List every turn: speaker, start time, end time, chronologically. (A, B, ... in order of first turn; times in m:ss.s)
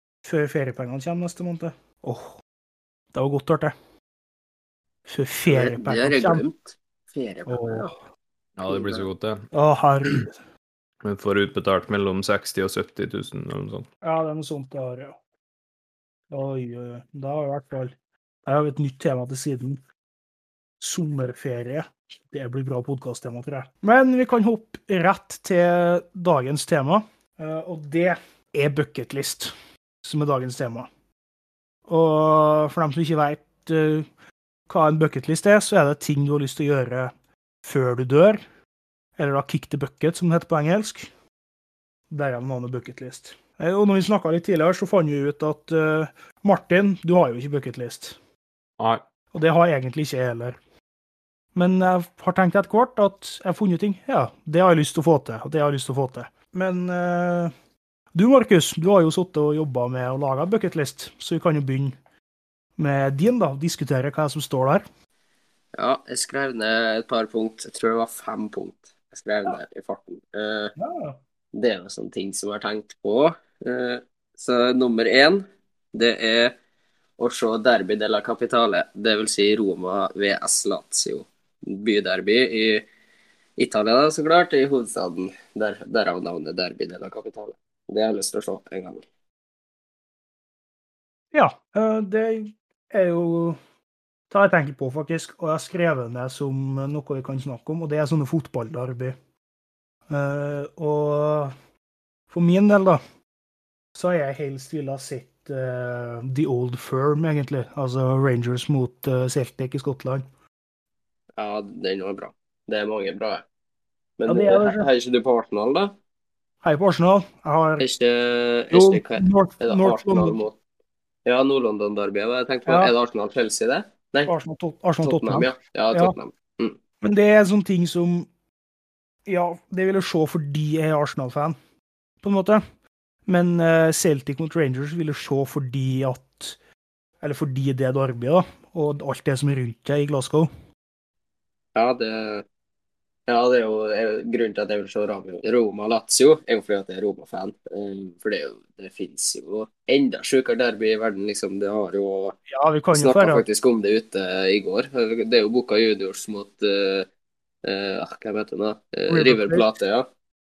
0:00.2-0:02.4 A
0:03.1-0:03.7 A
0:05.1-0:06.4 A
0:05.5-0:07.9 B
0:07.5-0:07.9 A
0:08.6-0:09.5 C
0:08.7-0:09.0 B
0:09.5-0:10.3 A
0:11.0-0:13.9 C
0:14.0-0:15.2 A
0:16.3-0:17.9 A
0:18.4-0:19.8 A
0:20.8-0:30.9 A
0:31.9-0:34.1 A
0:34.7-0:37.1 A
0:37.6-0:38.4 A
0:39.2-0:41.1 A
0:42.1-0:48.2 A
0:49.3-0:50.6 A
0:51.5-0:57.5 A
0:58.1-1:02.0 A
1:02.8-1:04.8 A
1:05.8-1:10.7 B
1:10.8-1:11.2 A
1:11.5-1:16.5 B
1:17.2-1:22.9 B
1:23.6-1:29.0 B
1:31.3-1:33.6 A
1:34.3-1:39.1 A
1:40.1-1:41.5 A
1:42.3-1:43.0 A
1:44.0-1:50.2 A
1:51.4-1:53.4 B
1:54.2-1:55.9 B
1:54.3-1:54.9 A
1:56.6-1:57.8 A
1:57.8-2:00.6 B
1:58.7-2:00.4 A
2:01.2-2:04.3 B
2:02.7-2:02.9 A
2:04.3-2:06.1 A
2:05.0-2:06.8 B
2:07.0-2:08.3 A
2:09.3-2:11.6 A
2:12.2-2:12.6 A
2:13.3-2:16.6 A
2:17.2-2:20.5 A
2:21.7-2:22.4 B
2:23.3-2:32.4 B
2:32.5-2:33.4 A
2:32.9-2:37.1 B
2:37.6-2:40.1 B
2:39.1-2:39.6 A